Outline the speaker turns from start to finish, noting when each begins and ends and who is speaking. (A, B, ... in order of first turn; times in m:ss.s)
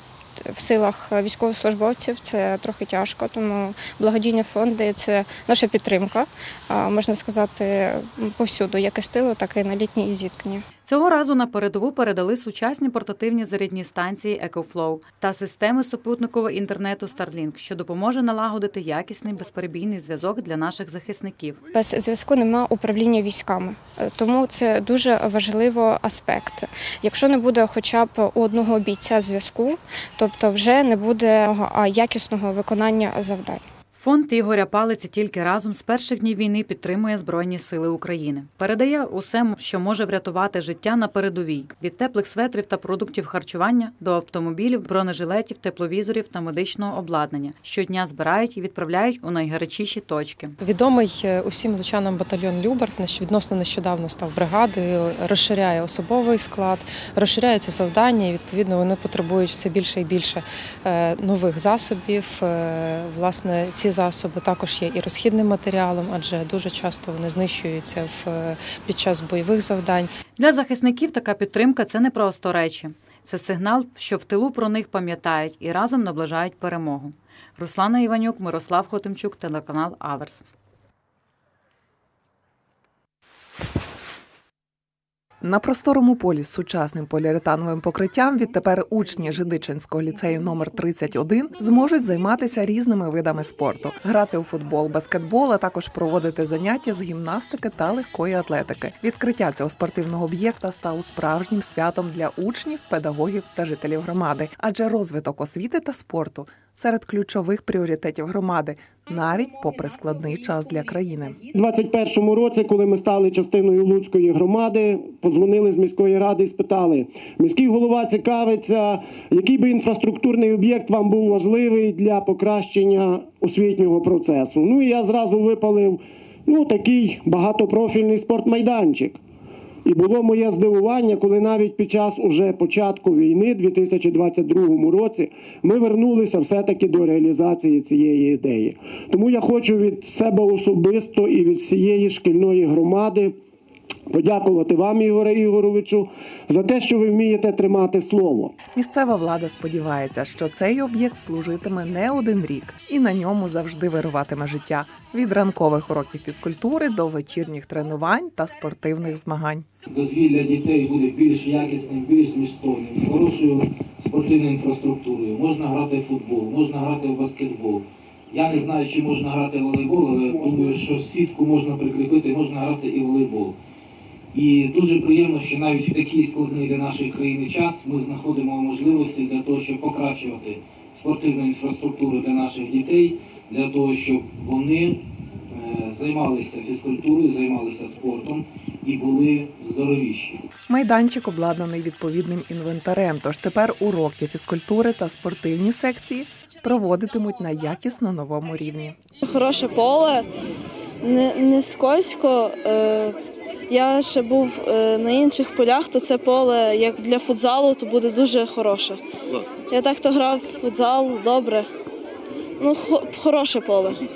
0:00.4-0:10.6 A
0:10.8-0:21.6 B
0:21.7-0:33.7 A
0:34.0-0:50.6 B
0:50.6-1:10.1 C
1:10.4-1:20.4 B
1:25.4-1:51.4 D
1:51.5-2:09.2 E
2:09.8-2:23.4 E
2:24.1-2:28.6 E
2:28.7-2:39.7 D
2:39.9-2:53.6 F
2:54.3-3:10.5 F
3:10.7-3:19.0 D
3:19.3-3:20.2 G
3:21.0-3:23.1 G
3:23.7-3:29.0 G
3:29.7-3:31.7 G
3:32.6-3:34.0 G